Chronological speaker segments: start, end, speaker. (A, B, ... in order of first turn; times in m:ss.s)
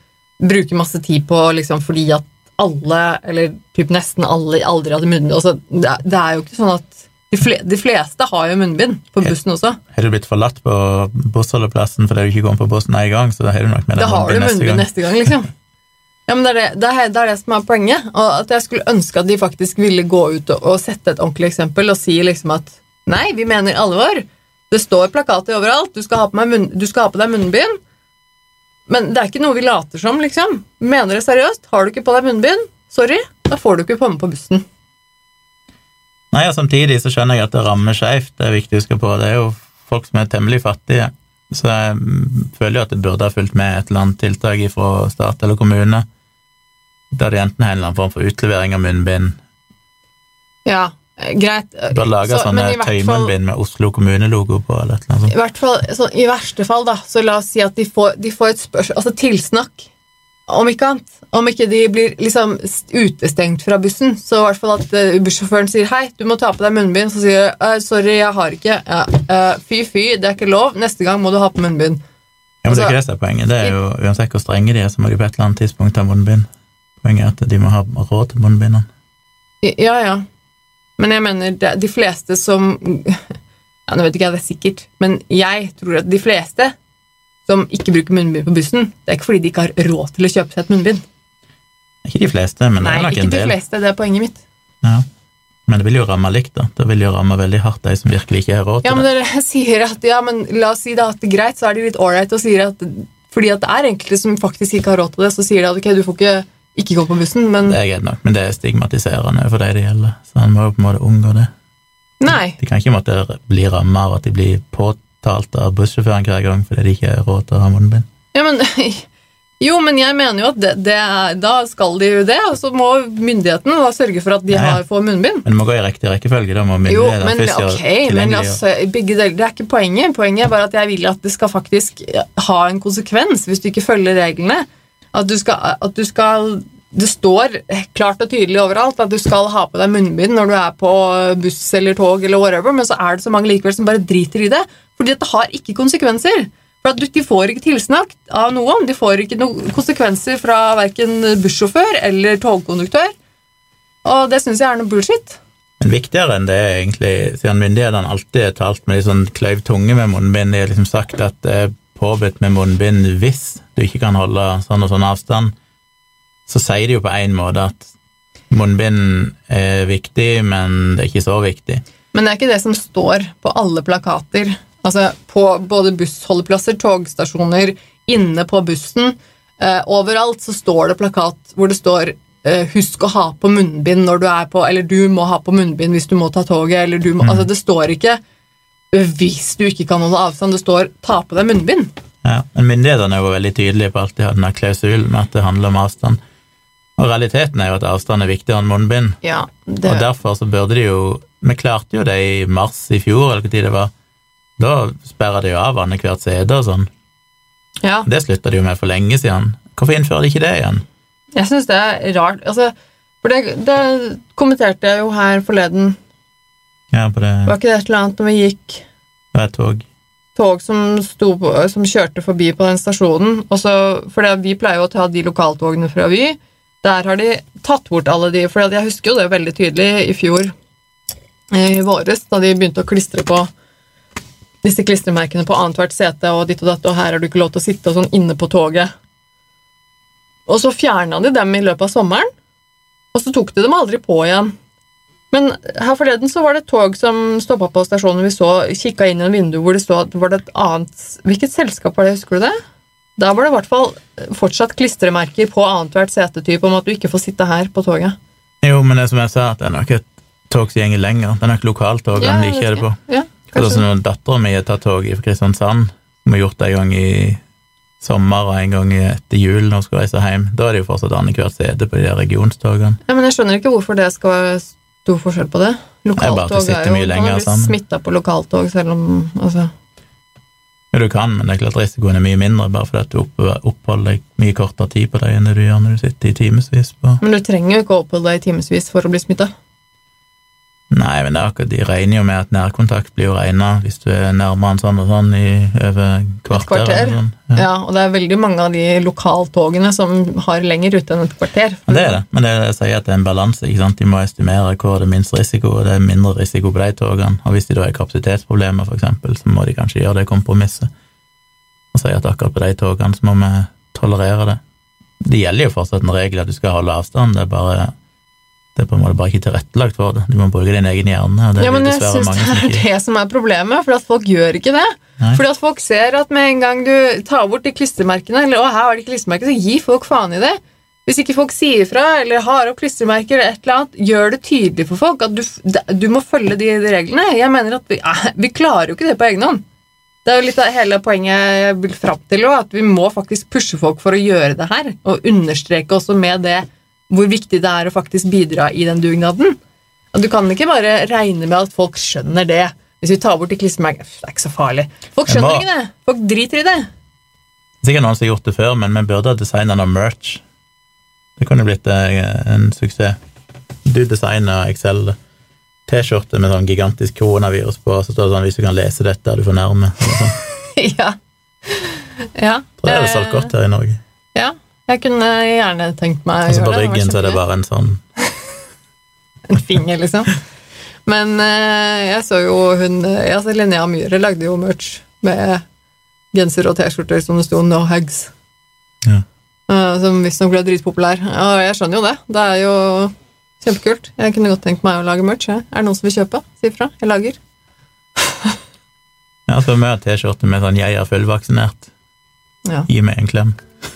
0:00.4-0:09.8 A
0:09.9-0:14.9 B
0:14.0-0:15.4 A
0:16.3-0:27.7 A
0:28.9-0:34.6 A
0:36.3-0:46.0 B
0:47.1-0:49.4 B
0:50.7-0:53.3 A
0:51.9-0:55.3 B
0:55.3-0:59.8 A
1:00.5-1:12.0 A
1:12.6-1:16.5 B
1:17.0-1:18.9 B
1:19.6-1:20.2 A
1:21.0-1:23.2 A
1:23.9-1:26.7 A
1:27.5-1:31.0 A
1:32.0-1:33.6 B
1:32.8-1:34.3 A
1:35.7-1:39.0 B
1:38.8-1:47.7 A
1:47.6-1:51.5 B
1:52.6-1:58.1 B
1:58.4-1:59.0 A
1:59.6-2:05.4 A
2:04.5-2:04.8 B
2:05.4-2:08.6 B
2:06.9-2:14.6 A
2:15.1-2:33.1 A
2:34.0-2:35.4 A
2:35.8-2:45.5 B
2:46.5-2:47.9 B
2:48.5-2:51.8 B
2:52.1-3:08.2 A
3:07.2-3:07.5 B
3:08.9-3:11.9 A
3:12.2-3:16.2 B
3:17.0-3:19.2 B
3:19.2-3:20.0 A
3:19.8-3:23.9 B
3:24.6-3:26.9 B
3:28.0-3:30.8 B
3:31.4-3:32.7 A
3:33.2-3:36.0 A
3:36.9-3:37.6 B
3:37.5-3:38.8 A
3:39.3-3:39.8 B
3:40.4-3:50.5 A
3:51.5-3:53.4 A
3:54.6-3:58.9 A
4:00.5-4:02.2 A
4:03.2-4:04.5 A
4:05.3-4:12.5 A
4:13.2-4:18.1 A
4:18.6-4:23.0 B
4:22.2-4:23.8 A
4:23.5-4:27.4 B
4:28.0-4:33.0 B
4:33.1-4:39.7 A
4:36.2-4:37.8 B
4:40.9-4:47.2 B
4:47.2-4:49.5 A
4:50.9-4:57.6 B
4:56.5-5:02.2 A
5:01.9-5:10.9 B
5:11.9-5:14.6 B
5:15.2-5:17.9 B
5:18.8-5:22.8 B
5:21.6-5:39.6 A
5:40.2-5:49.5 A
5:50.1-5:56.8 A
5:55.3-5:55.6 B
5:57.8-6:00.4 B
6:01.4-6:03.2 B
6:03.8-6:05.2 B
6:05.9-6:10.4 B
6:10.8-6:11.1 A
6:11.7-6:13.5 A
6:12.8-6:14.0 B
6:14.3-6:17.4 A
6:16.5-6:18.0 B
6:19.5-6:20.3 A
6:21.1-6:25.6 A
6:26.3-6:28.3 A
6:29.7-6:33.1 A
6:33.6-6:37.3 A
6:39.5-6:41.9 B
6:42.9-6:43.6 B